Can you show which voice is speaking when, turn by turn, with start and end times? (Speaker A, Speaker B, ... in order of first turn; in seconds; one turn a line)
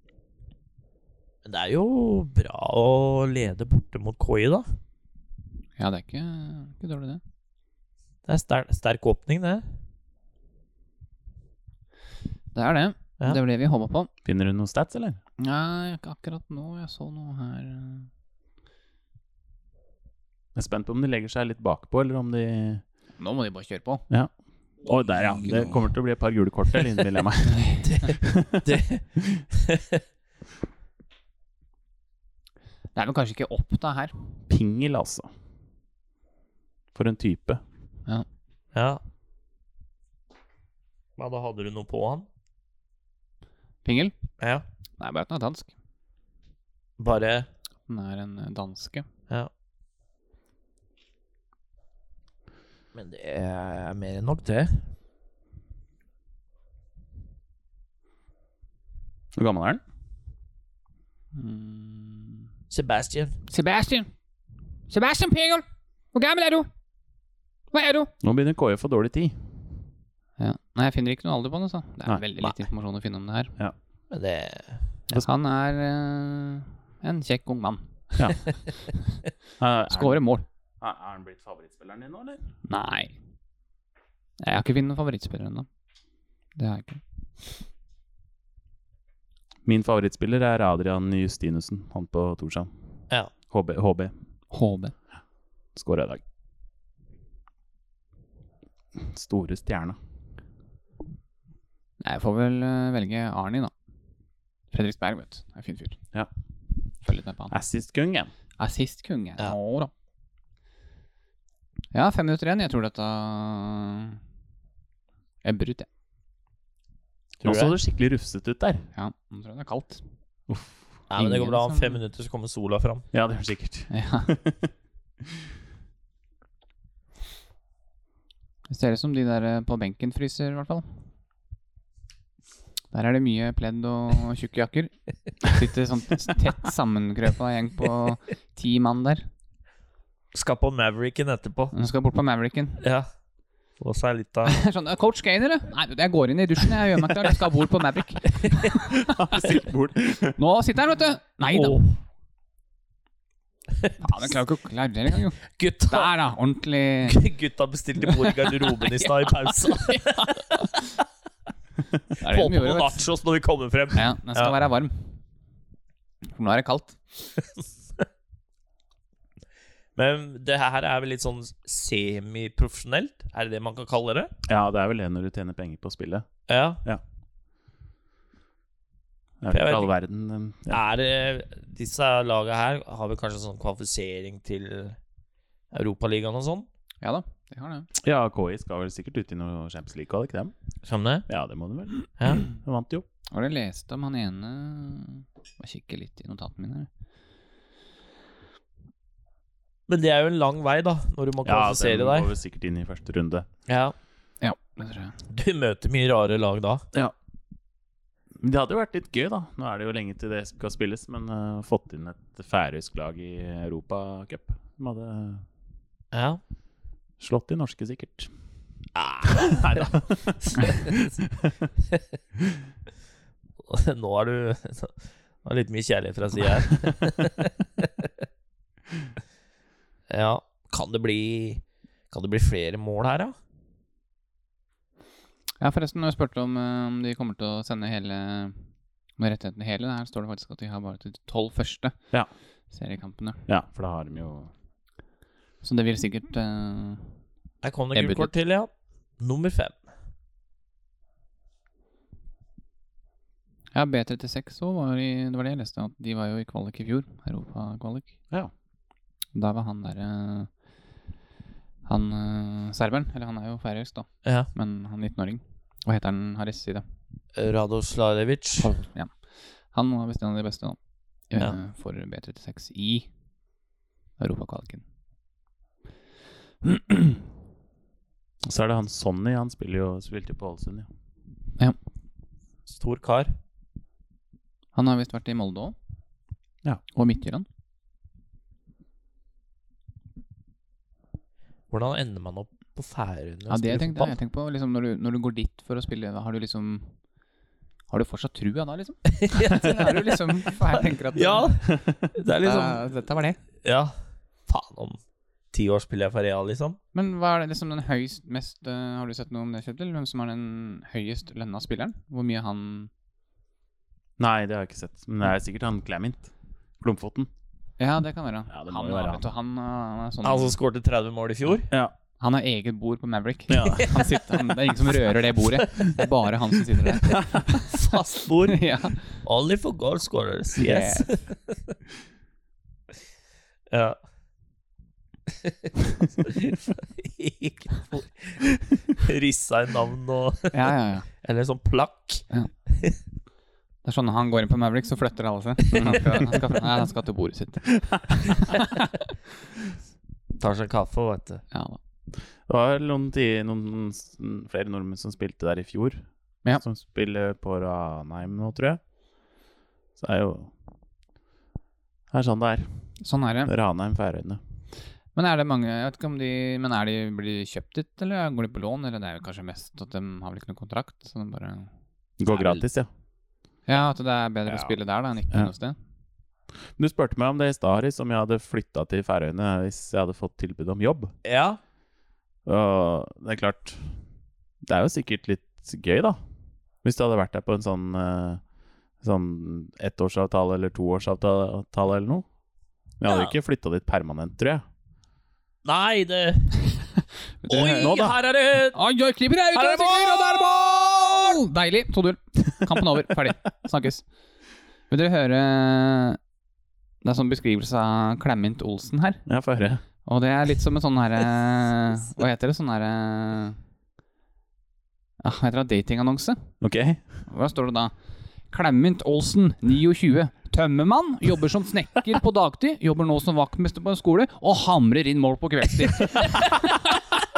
Speaker A: 1.4-4.7
Speaker B: 5.8-7.2
Speaker A: 8.2-9.6
Speaker B: 12.5-14.1
Speaker C: 14.2-15.2
Speaker B: 15.4-18.1
Speaker C: 20.5-22.8
Speaker B: 23.2-24.0
Speaker C: 24.8-29.4
Speaker A: 25.1-25.8
Speaker B: 27.5-27.8
Speaker A: 27.8-30.0
Speaker B: 32.9-34.1
Speaker C: 34.5-35.3
Speaker C: 36.9-37.6
Speaker A: 38.7-39.0
Speaker A: 41.2-42.3
Speaker B: 43.8-44.1
Speaker B: 45.0-45.7
Speaker A: 47.0-47.5
Speaker B: 47.9-49.0
Speaker A: 52.9-54.9
Speaker C: 59.3-59.8
Speaker B: 61.3-62.4
Speaker A: 62.7-63.4
Speaker B: 63.5-64.1
Speaker B: 64.9-66.7
Speaker B: 67.7-68.1
Speaker C: 68.2-69.3
Speaker B: 70.4-73.5
Speaker C: 72.0-72.4
Speaker A: 74.1-74.8
Speaker B: 75.1-77.9
Speaker C: 79.6-80.2
Speaker B: 79.9-80.5
Speaker C: 80.8-82.4
Speaker B: 82.7-83.1
Speaker B: 84.4-85.7
Speaker B: 86.5-87.0
Speaker C: 89.6-92.7
Speaker C: 93.5-94.1
Speaker B: 94.5-94.9
Speaker C: 95.8-96.2
Speaker C: 99.0-100.0
Speaker B: 102.0-103.7
Speaker B: 104.7-106.0
Speaker B: 107.0-107.5
Speaker C: 107.5-108.3
Speaker B: 108.6-109.9
Speaker B: 111.9-114.2
Speaker B: 115.4-115.9
Speaker A: 117.4-117.8
Speaker C: 117.4-118.8
Speaker B: 118.9-120.0
Speaker C: 120.5-120.8
Speaker A: 121.1-123.0
Speaker B: 121.2-122.0
Speaker C: 123.1-124.7
Speaker B: 123.9-124.3
Speaker B: 128.7-130.8
Speaker B: 132.9-134.9
Speaker B: 135.4-139.3
Speaker A: 140.3-141.7
Speaker B: 141.7-142.8
Speaker A: 142.8-143.1
Speaker A: 143.8-144.6
Speaker B: 144.5-149.5
Speaker A: 148.3-148.7
Speaker C: 148.9-150.4
Speaker B: 150.4-151.8
Speaker A: 151.5-151.9
Speaker A: 153.8-154.3
Speaker B: 154.0-157.2
Speaker A: 155.5-156.1
Speaker A: 157.1-160.8
Speaker B: 158.1-160.9
Speaker A: 162.1-164.5
Speaker B: 162.2-163.0
Speaker B: 163.9-165.1
Speaker B: 166.2-167.3
Speaker A: 169.9-174.3
Speaker C: 174.4-176.3
Speaker A: 176.5-176.8
Speaker C: 179.4-180.8
Speaker A: 179.5-179.9
Speaker A: 180.7-185.0
Speaker A: 185.7-186.7
Speaker B: 187.0-187.9
Speaker C: 188.0-190.5
Speaker A: 190.8-191.3
Speaker C: 191.3-193.1
Speaker A: 192.2-192.4
Speaker B: 193.3-196.9
Speaker A: 199.9-202.3
Speaker C: 201.4-203.5
Speaker A: 203.7-203.9
Speaker B: 204.4-205.2
Speaker A: 205.3-206.8
Speaker C: 208.4-215.4
Speaker A: 216.1-216.4
Speaker C: 217.2-218.3
Speaker A: 218.9-221.1
Speaker C: 219.3-221.5
Speaker A: 223.6-228.1
Speaker A: 230.1-233.3
Speaker B: 235.6-238.6
Speaker B: 239.2-241.9
Speaker B: 242.7-243.4
Speaker C: 243.5-244.5
Speaker B: 245.6-247.1
Speaker A: 247.6-249.8
Speaker B: 247.9-248.3
Speaker B: 253.7-258.1
Speaker B: 259.3-260.5
Speaker B: 261.9-266.8
Speaker A: 264.2-264.5
Speaker A: 267.4-268.7
Speaker B: 268.6-269.1
Speaker B: 269.7-270.8
Speaker B: 271.3-273.1
Speaker B: 274.2-274.8
Speaker C: 278.4-280.9
Speaker A: 282.7-283.3
Speaker B: 284.7-285.8
Speaker B: 286.9-287.4
Speaker A: 291.7-294.1
Speaker B: 293.5-296.9
Speaker B: 297.9-301.6
Speaker A: 299.1-302.8
Speaker C: 301.7-302.0
Speaker B: 302.4-303.4
Speaker A: 303.6-303.9
Speaker A: 304.5-305.0
Speaker A: 305.5-306.8
Speaker B: 306.9-312.9
Speaker C: 314.2-316.3
Speaker C: 316.8-317.3
Speaker B: 317.8-320.6
Speaker C: 318.5-319.2
Speaker A: 320.2-321.7
Speaker C: 321.7-321.9
Speaker B: 322.2-327.7
Speaker C: 323.5-323.9
Speaker A: 323.8-326.1
Speaker A: 326.9-328.7
Speaker B: 328.5-329.0
Speaker A: 329.2-331.6
Speaker B: 330.6-331.1
Speaker A: 333.7-334.0
Speaker A: 335.3-343.0
Speaker B: 340.5-341.1
Speaker B: 343.8-349.0
Speaker A: 345.7-346.0
Speaker C: 345.7-346.3
Speaker A: 350.4-351.4
Speaker B: 351.5-351.8
Speaker C: 352.5-356.1
Speaker C: 356.6-358.8
Speaker C: 360.0-360.5
Speaker C: 362.1-362.6
Speaker B: 363.0-363.5
Speaker C: 363.4-364.4
Speaker B: 365.1-371.7
Speaker C: 372.2-372.9
Speaker A: 372.3-372.6
Speaker B: 373.7-375.8
Speaker A: 374.5-374.7
Speaker C: 376.8-381.1
Speaker A: 381.2-381.6
Speaker C: 382.4-383.9
Speaker C: 384.6-386.2
Speaker C: 386.8-388.4
Speaker C: 389.0-392.2
Speaker C: 393.0-394.6
Speaker A: 395.6-396.6
Speaker B: 397.4-398.1
Speaker A: 397.5-398.8
Speaker C: 397.8-398.1
Speaker B: 398.7-404.0
Speaker A: 399.5-401.4
Speaker B: 404.9-406.2
Speaker B: 407.0-409.2
Speaker C: 409.2-409.8
Speaker B: 410.0-413.6
Speaker B: 415.2-416.4
Speaker C: 416.6-417.0
Speaker B: 417.2-417.9
Speaker B: 418.5-427.1